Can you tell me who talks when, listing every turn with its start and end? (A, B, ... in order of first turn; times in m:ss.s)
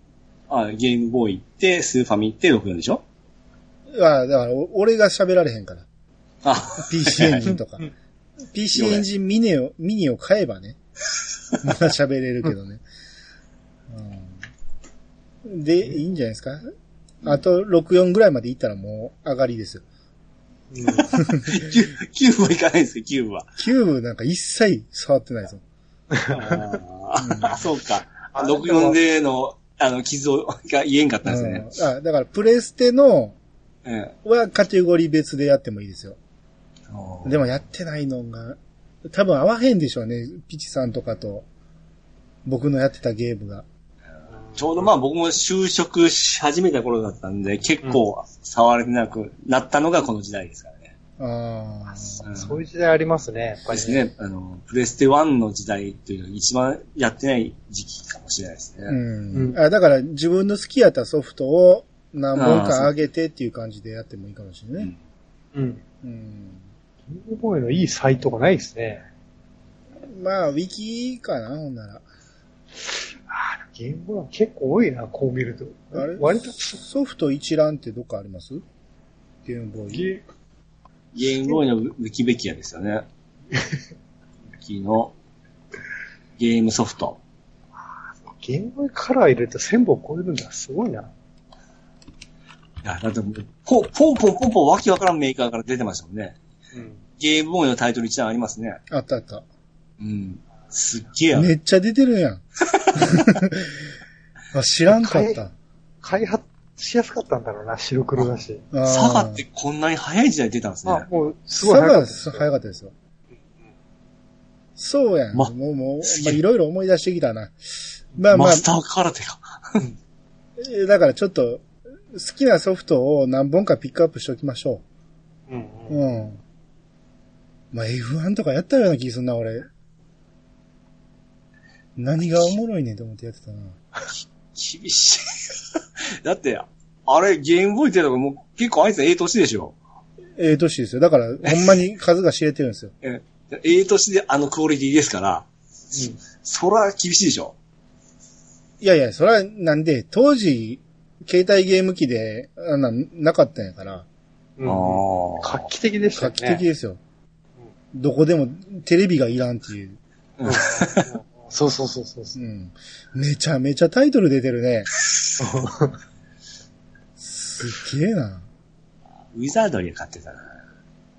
0:00.5-0:03.0 A
0:03.9-0:05.9 B
0:06.4-0:07.5 A
0:06.8-0:07.9 B
0:08.5-0:10.8 B
0:08.7-0:09.0 A
0:11.6-0:12.8 B
0:13.9-0:14.4 B
0:15.4-0:16.6 B
0:17.2-0:19.8 B
0:20.7-0:21.1 C
0:20.9-0:23.5 A
0:23.6-0:25.6 B
0:26.1-0:26.8 C
0:26.3-0:31.7 A
0:27.2-0:27.6 B
0:28.4-0:29.0 C
0:31.2-0:33.4 B
0:33.8-0:34.1 A
0:34.2-0:36.2 B
0:36.9-0:37.4 A
0:37.2-0:41.5 B
0:42.4-0:43.6 B
0:44.6-0:50.9 A
0:51.2-0:52.2 B
0:52.2-0:52.5 A
0:52.3-0:54.0 C
0:53.7-0:59.0 A
0:58.9-1:04.9 B
0:59.3-0:59.6 C
1:02.4-1:02.9 A
1:05.5-1:05.8 C
1:06.0-1:06.6 B
1:07.1-1:09.0 C
1:10.1-1:12.0 B
1:12.9-1:16.8 C
1:15.9-1:18.6 B
1:19.4-1:20.1 B
1:19.9-1:20.2 C
1:21.1-1:23.1 A
1:24.6-1:25.1 A
1:26.4-1:27.2 A
1:27.8-1:31.1 C
1:32.8-1:36.4 A
1:36.7-1:37.0 C
1:37.2-1:38.8 A
1:38.9-1:39.4 B
1:40.0-1:41.5 A
1:41.3-1:42.4 B
1:42.7-1:43.3 A
1:42.9-1:43.9 B
1:44.5-1:45.5 B
1:44.9-1:45.4 C
1:46.0-1:48.6 C
1:48.7-1:49.4 B
1:48.9-1:51.1 A
1:50.9-1:52.5 C
1:51.6-1:52.9 B
1:54.8-1:57.6 B
1:56.0-1:56.4 A
1:58.2-1:58.6 B
1:58.3-1:59.8 A
2:00.6-2:04.8 B
2:05.5-2:06.1 C
2:05.9-2:06.4 B
2:07.7-2:09.7 B
2:12.0-2:13.8 B
2:14.6-2:15.6 A
2:16.2-2:19.8 A
2:20.4-2:22.9 B
2:23.0-2:25.5 A
2:25.9-2:26.2 C
2:26.4-2:27.6 A
2:28.8-2:34.1 B
2:34.6-2:36.6 C
2:34.6-2:35.7 A
2:36.2-2:37.0 B
2:37.9-2:40.0 B
2:40.4-2:41.1 A
2:40.5-2:42.4 C
2:42.4-2:44.9 B
2:45.4-2:46.0 C
2:47.2-2:48.5 B
2:49.3-2:50.5 A